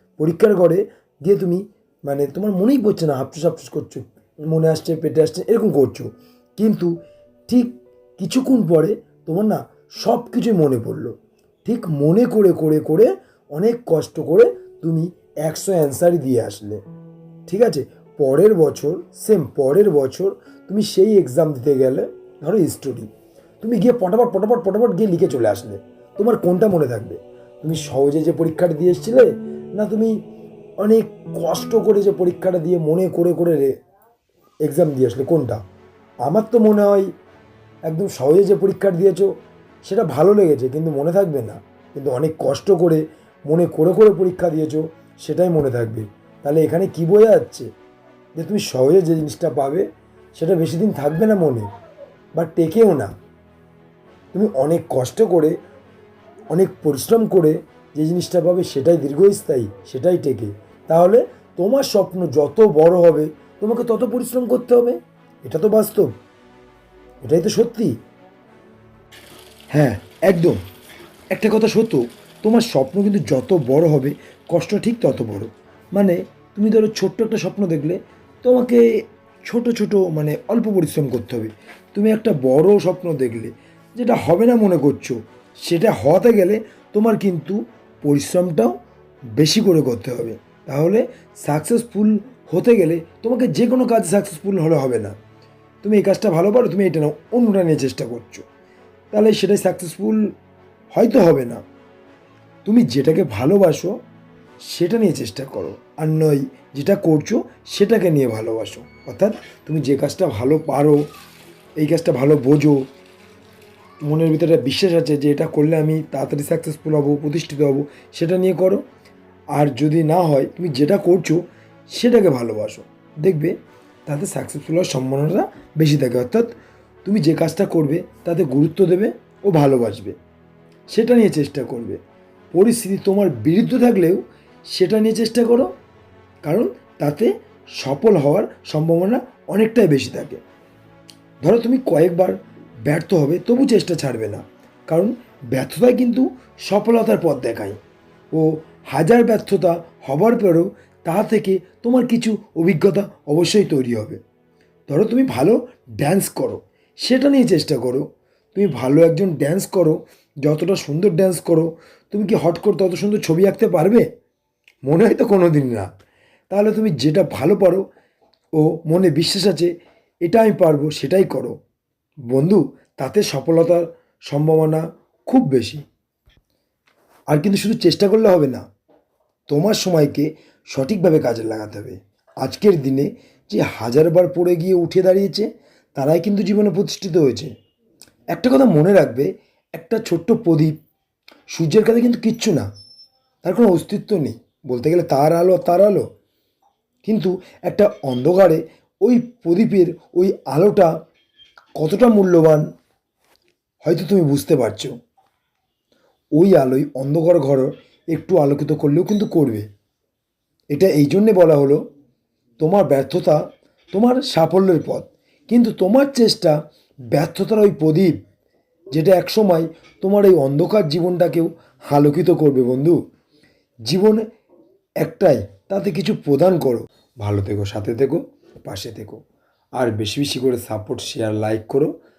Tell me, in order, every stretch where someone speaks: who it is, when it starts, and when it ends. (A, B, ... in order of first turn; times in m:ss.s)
0:00.2-0:06.9 A
0:07.5-0:16.8 A
0:17.5-0:23.1 A
0:23.6-0:30.2 A
0:30.8-0:33.8 A
0:34.6-0:35.6 A
0:36.2-0:37.1 A
0:37.9-0:47.7 A
0:48.4-0:51.7 A
0:52.4-0:53.1 A
0:54.3-0:55.6 A
0:56.5-1:06.1 A
1:07.2-1:07.9 A
1:09.7-1:10.6 A
1:11.3-1:18.8 A
1:19.4-1:28.8 A
1:29.4-1:35.2 A
1:35.8-1:38.4 A
1:39.1-1:40.3 A
1:40.9-1:41.6 A
1:42.6-1:44.0 A
1:44.7-1:51.0 A
1:51.8-1:52.8 A
1:54.0-1:58.8 A
1:59.5-2:10.2 A
2:10.9-2:12.0 A
2:12.5-2:15.7 A
2:16.4-2:20.4 A
2:21.4-2:27.8 A
2:28.3-2:34.2 A
2:34.9-2:44.1 A
2:44.9-2:45.9 A
2:46.5-2:47.8 A
2:48.6-2:49.7 A
2:50.2-2:51.6 A
2:52.3-2:55.8 A
2:57.3-2:58.6 A
2:59.5-3:07.5 A
3:08.3-3:10.7 A
3:11.5-3:12.7 A
3:13.4-3:16.1 A
3:17.0-3:20.9 A
3:21.8-3:22.7 A
3:23.8-3:24.9 A
3:26.4-3:29.7 A
3:30.7-3:31.8 A
3:32.6-3:36.6 A
3:37.1-3:38.2 A
3:38.9-3:43.0 A
3:43.9-3:44.2 A
3:45.0-3:49.2 A
3:49.8-3:51.9 A